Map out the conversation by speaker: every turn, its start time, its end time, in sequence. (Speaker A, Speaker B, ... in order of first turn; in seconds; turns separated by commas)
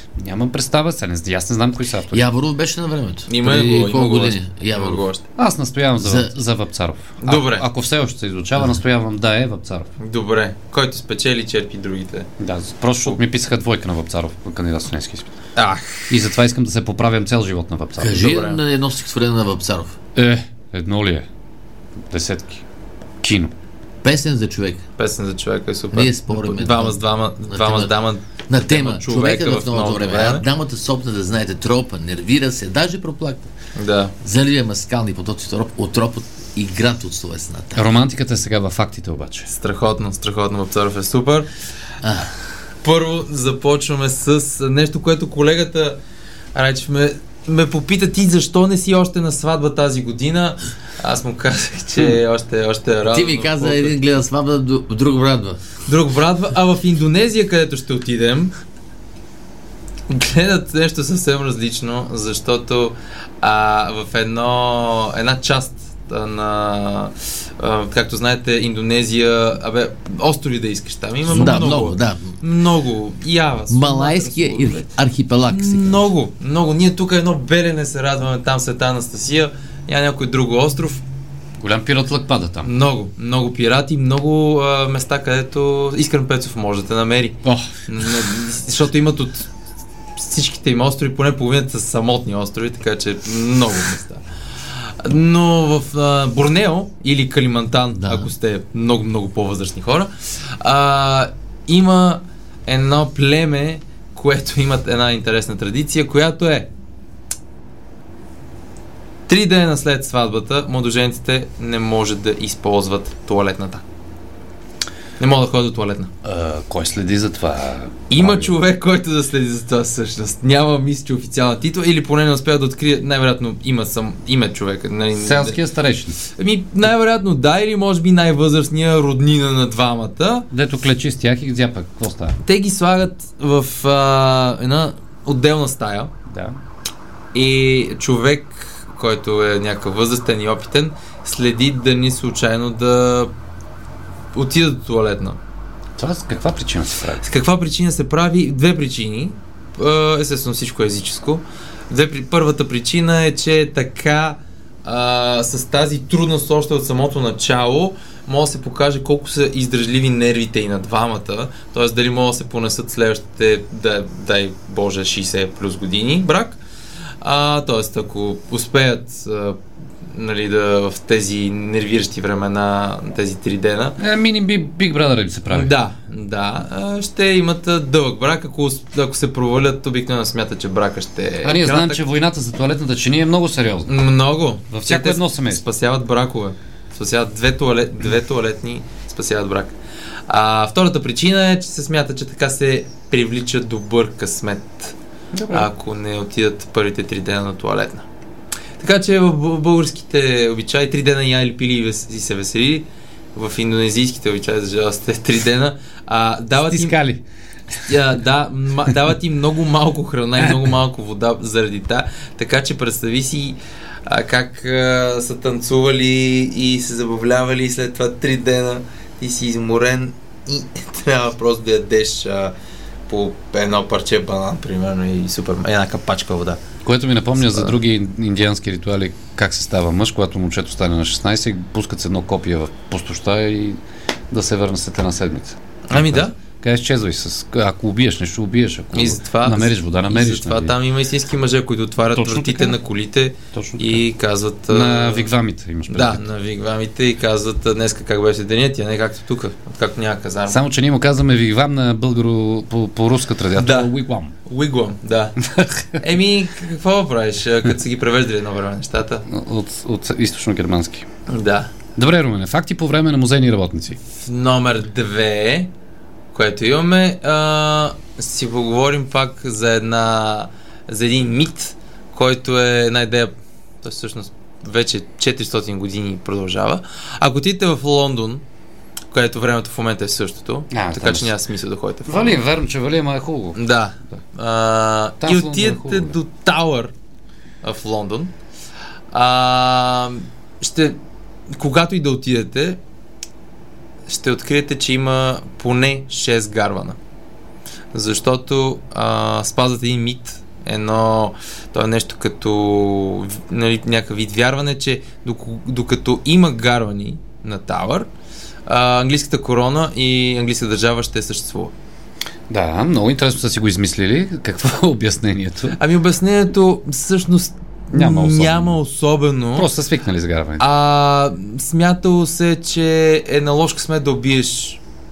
Speaker A: 0.2-2.2, Speaker B: 2.1-5.0, Speaker C: 3.3-5.2, Speaker A: 5.4-9.9, Speaker B: 6.0-6.4, Speaker C: 7.2-7.7, Speaker C: 10.0-12.3, Speaker A: 12.4-15.3, Speaker C: 15.6-16.1, Speaker A: 16.1-18.3, Speaker B: 18.0-19.9, Speaker C: 18.2-18.6, Speaker A: 20.1-21.3, Speaker A: 22.1-22.6, Speaker A: 23.2-23.5, Speaker B: 24.0-24.8, Speaker C: 25.0-30.5, Speaker B: 25.9-27.9, Speaker B: 28.5-33.5, Speaker C: 33.8-34.1, Speaker B: 34.2-37.9, Speaker A: 37.8-39.5, Speaker C: 39.5-41.5, Speaker B: 42.0-42.3, Speaker C: 42.8-46.0, Speaker C: 46.5-54.0, Speaker B: 53.1-55.6, Speaker C: 55.9-58.5, Speaker C: 60.1-74.9, Speaker B: 71.2-72.4, Speaker B: 73.7-76.1, Speaker C: 75.5-81.0, Speaker A: 81.6-82.7, Speaker C: 82.6-89.5, Speaker A: 87.4-87.7, Speaker C: 90.2-106.7, Speaker B: 98.0-98.3, Speaker C: 109.3-113.8, Speaker C: 115.2-116.1, Speaker A: 116.2-118.5, Speaker C: 118.1-125.6, Speaker A: 125.2-126.2, Speaker C: 126.3-130.5, Speaker A: 130.5-132.4, Speaker C: 132.4-136.1, Speaker A: 136.3-136.6, Speaker C: 137.3-143.3, Speaker C: 144.3-145.4, Speaker A: 146.0-147.2, Speaker C: 147.2-166.6, Speaker C: 167.2-174.0, Speaker A: 174.0-175.7, Speaker C: 175.5-182.0, Speaker A: 181.4-184.0, Speaker C: 183.9-189.8, Speaker A: 184.7-185.6, Speaker C: 190.3-195.0, Speaker A: 195.3-195.7, Speaker C: 195.5-198.1, Speaker C: 198.8-207.0, Speaker A: 206.6-207.2, Speaker C: 207.9-222.5, Speaker C: 223.1-226.6, Speaker A: 226.8-240.7, Speaker C: 227.4-227.7, Speaker C: 235.9-236.3, Speaker C: 238.9-245.3, Speaker A: 242.1-242.8, Speaker A: 243.5-244.0, Speaker A: 244.7-246.2, Speaker C: 245.9-250.6, Speaker A: 250.5-254.3, Speaker C: 253.6-253.9, Speaker C: 254.4-255.4, Speaker A: 255.5-256.0, Speaker C: 256.0-259.3, Speaker A: 259.3-261.1, Speaker C: 261.3-261.7, Speaker A: 262.0-264.0, Speaker C: 264.1-265.7, Speaker C: 266.3-278.4, Speaker C: 279.1-282.4, Speaker A: 280.7-281.4, Speaker A: 282.1-283.6, Speaker C: 283.6-286.9, Speaker A: 285.2-286.2, Speaker C: 287.6-288.3, Speaker C: 289.1-291.0, Speaker C: 291.5-292.8, Speaker C: 294.1-297.0, Speaker C: 297.9-308.1, Speaker C: 308.7-311.7, Speaker A: 312.5-315.8, Speaker C: 315.8-319.7, Speaker A: 317.9-318.8, Speaker A: 319.6-320.6, Speaker C: 320.6-324.8